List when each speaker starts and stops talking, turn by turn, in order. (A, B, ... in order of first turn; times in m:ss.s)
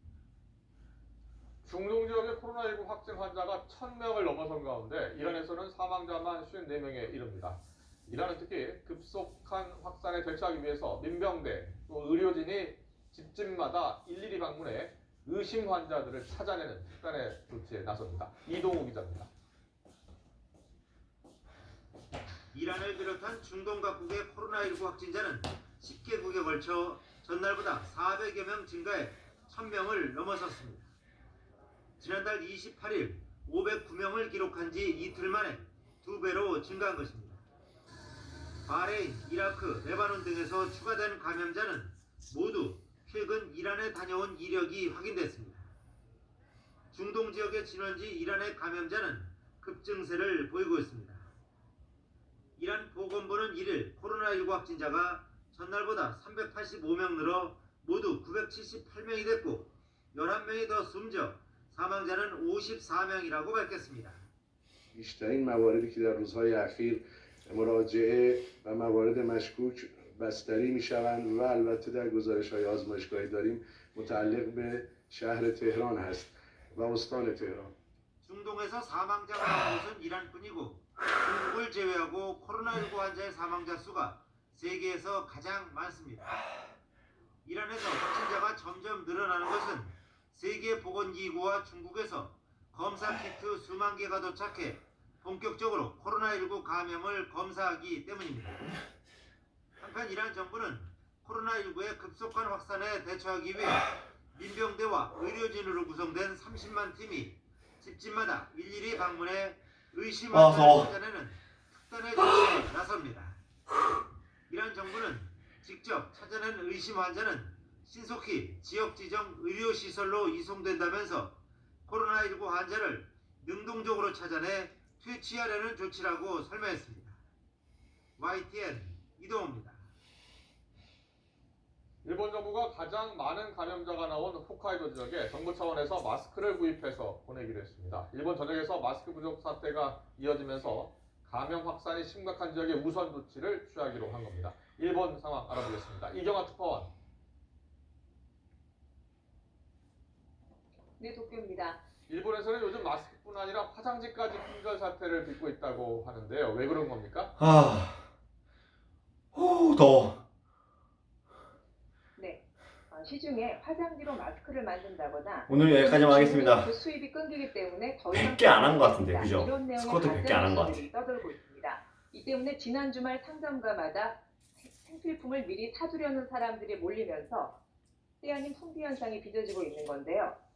0:01.6-0:19.3 A
0:22.5-0:30.9 B
0:32.0-0:37.4 B
0:38.7-0:45.7 B
0:46.9-0:51.3 B
0:52.6-1:04.2 B
1:04.9-1:17.7 C
1:18.2-1:26.3 B
1:27.4-1:38.7 B
1:39.8-1:53.4 B
1:50.3-1:50.9 D
1:54.5-2:07.2 B
2:08.2-2:09.8 B
2:12.0-2:26.9 A
2:31.0-2:31.8 E
2:32.1-2:37.4 A
2:37.4-2:38.1 D
2:39.3-2:40.2 D
2:42.2-2:57.6 E
2:45.5-2:46.7 D
2:48.1-2:50.8 D
2:58.2-3:00.4 E